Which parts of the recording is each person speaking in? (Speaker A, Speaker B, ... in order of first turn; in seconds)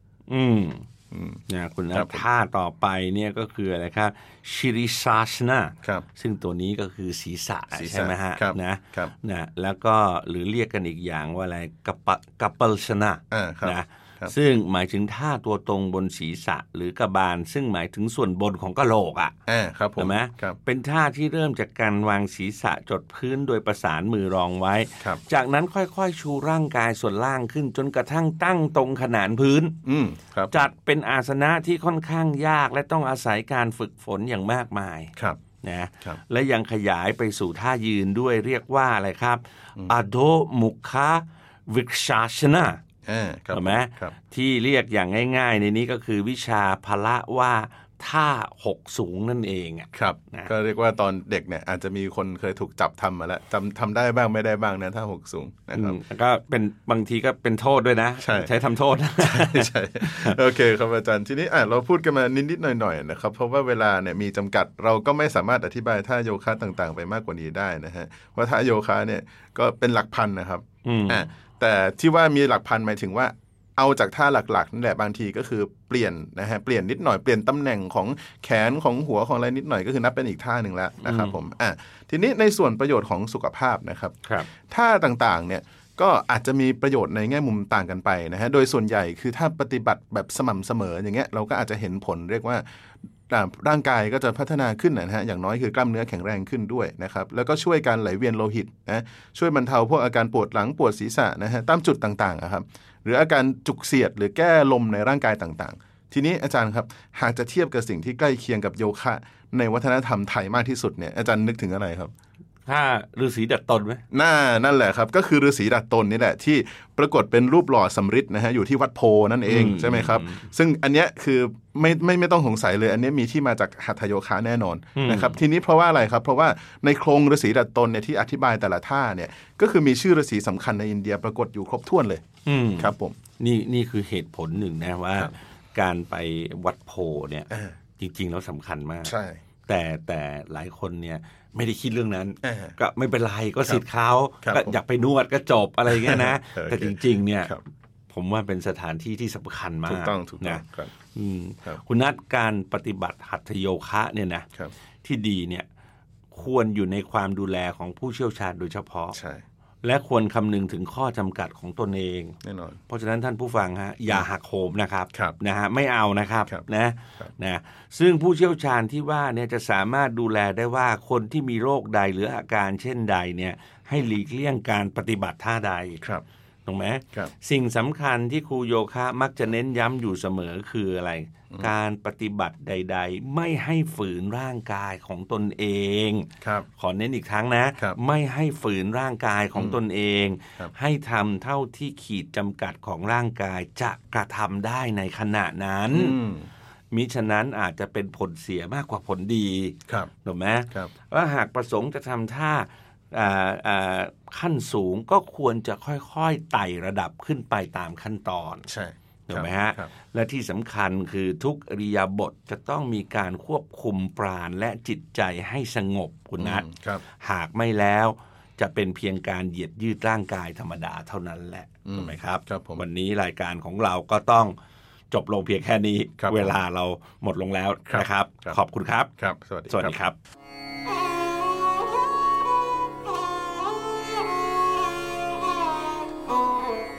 Speaker A: 0.3-0.8, 1.5-19.3, 20.0-29.8, 30.5-42.8, 43.5-50.5, 55.7-60.4, 70.8-71.2, 81.0-81.3, 112.7-114.0, 119.5-120.5, 125.0-125.4, 132.4-139.1, 139.7-147.5, 148.1-154.5, 155.0-155.7, 156.3-159.2, 159.8-162.4, 162.9-176.0, 176.7-196.2, 196.9-208.7, 209.3-216.7, 217.2-224.6, 225.1-229.1, 229.7-230.2
Speaker B: 1.1-1.4, 1.9-2.2, 7.7-9.1, 13.3-14.3, 19.4-20.6, 29.8-30.6, 43.0-44.1, 49.9-56.0, 58.2-58.5, 59.2-92.6, 93.3-112.1, 114.1-132.2, 132.8-133.2, 137.5-137.7, 139.0-139.4, 142.4-142.7, 144.4-144.8, 145.9-147.6, 149.8-150.9, 159.1-159.4, 162.4-162.8, 186.4-186.7, 195.9-196.5, 208.7-209.9, 216.4-217.0, 221.8-222.8, 226.2-226.6, 227.9-228.6, 229.2-229.9